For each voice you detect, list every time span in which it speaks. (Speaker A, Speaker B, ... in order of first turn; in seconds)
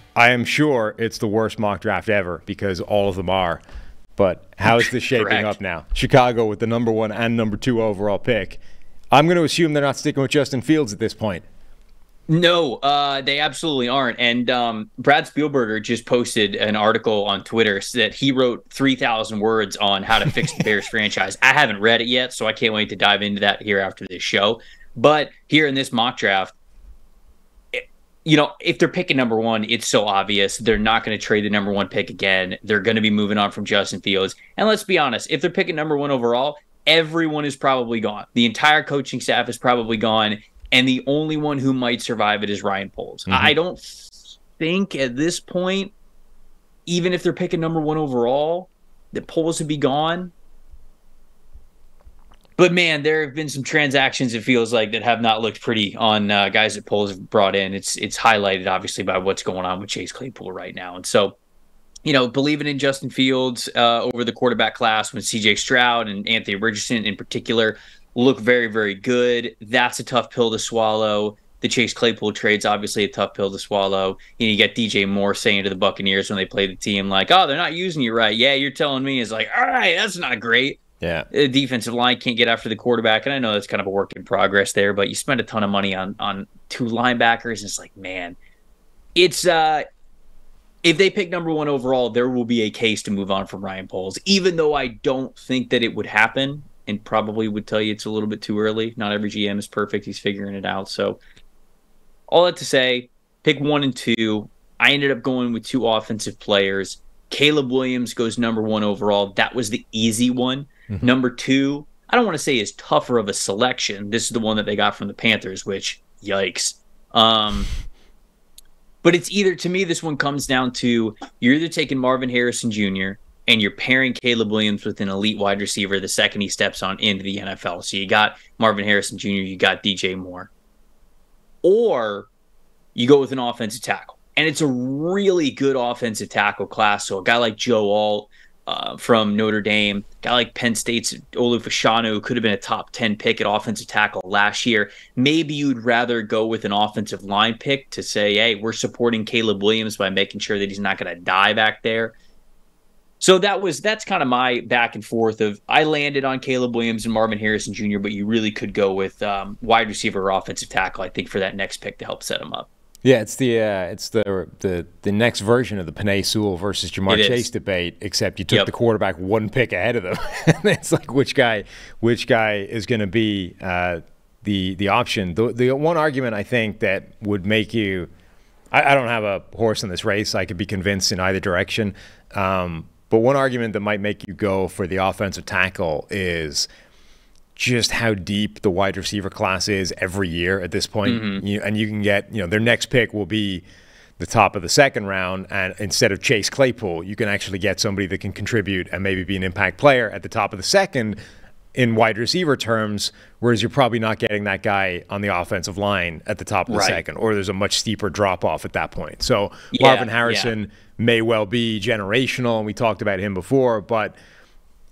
Speaker A: 0.1-3.6, 4.2-8.6, 9.1-11.4, 43.3-43.5, 81.0-81.3, 163.0-178.1, 178.7-186.7, 187.6-193.6, 194.2-201.2, 201.8-214.2
Speaker B: 4.7-5.6, 12.3-26.6, 27.7-45.9, 46.9-50.3, 52.6-61.4, 62.1-80.8, 81.3-88.4, 89.2-89.8, 90.8-101.2, 102.3-117.7, 119.0-130.5, 131.6-132.3, 132.9-152.2, 153.2-162.7, 167.1-167.5, 191.1-191.4, 206.7-207.0, 209.7-210.5